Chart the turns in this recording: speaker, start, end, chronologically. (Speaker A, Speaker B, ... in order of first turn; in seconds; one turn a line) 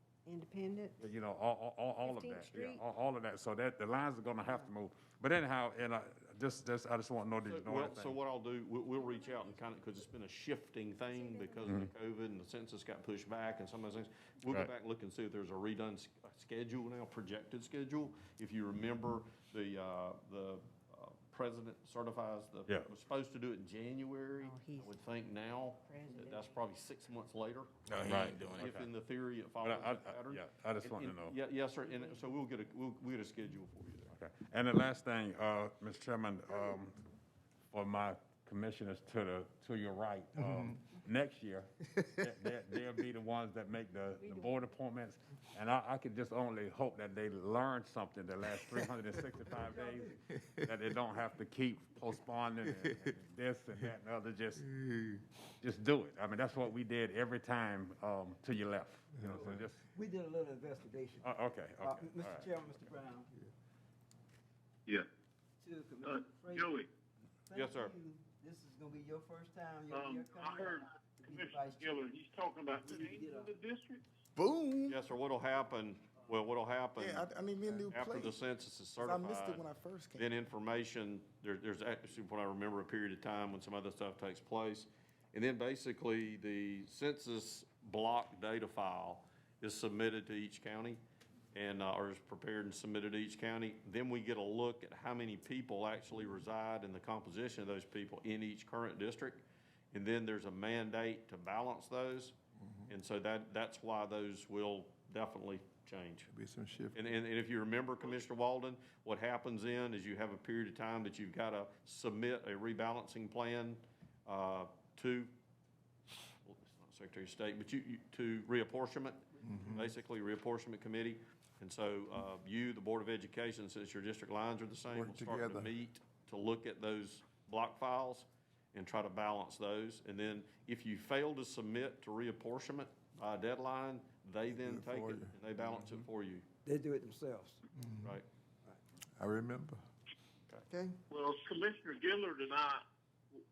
Speaker A: 0.2-1.1
Speaker B: 1.0-8.2
Speaker A: 2.0-2.8
Speaker C: 7.5-34.1
Speaker A: 11.1-11.8
Speaker B: 11.6-11.9
Speaker A: 24.4-24.9
Speaker A: 25.8-26.6
Speaker D: 27.9-28.7
Speaker B: 28.0-28.9
Speaker B: 29.6-31.4
Speaker B: 34.1-37.0
Speaker B: 37.7-54.7
Speaker E: 40.4-40.7
Speaker A: 44.2-44.5
Speaker F: 49.5-50.1
Speaker E: 54.7-55.2
Speaker B: 55.6-59.8
Speaker E: 59.1-59.6
Speaker F: 59.2-63.3
Speaker B: 61.2-62.9
Speaker F: 65.6-66.8
Speaker G: 66.5-66.8
Speaker F: 67.5-72.1
Speaker C: 67.5-68.0
Speaker G: 69.9-70.8
Speaker G: 71.3-74.0
Speaker F: 72.7-73.6
Speaker D: 74.3-74.9
Speaker C: 74.8-91.0
Speaker D: 77.0-78.3
Speaker D: 79.0-80.2
Speaker C: 91.5-102.3
Speaker C: 102.9-106.3
Speaker E: 106.3-107.0
Speaker C: 106.9-115.3
Speaker C: 116.4-136.4
Speaker E: 119.4-119.8
Speaker E: 124.9-125.7
Speaker E: 134.6-136.0
Speaker F: 136.6-137.6
Speaker E: 137.7-138.2
Speaker E: 139.2-139.8
Speaker F: 140.7-141.0
Speaker G: 141.1-142.8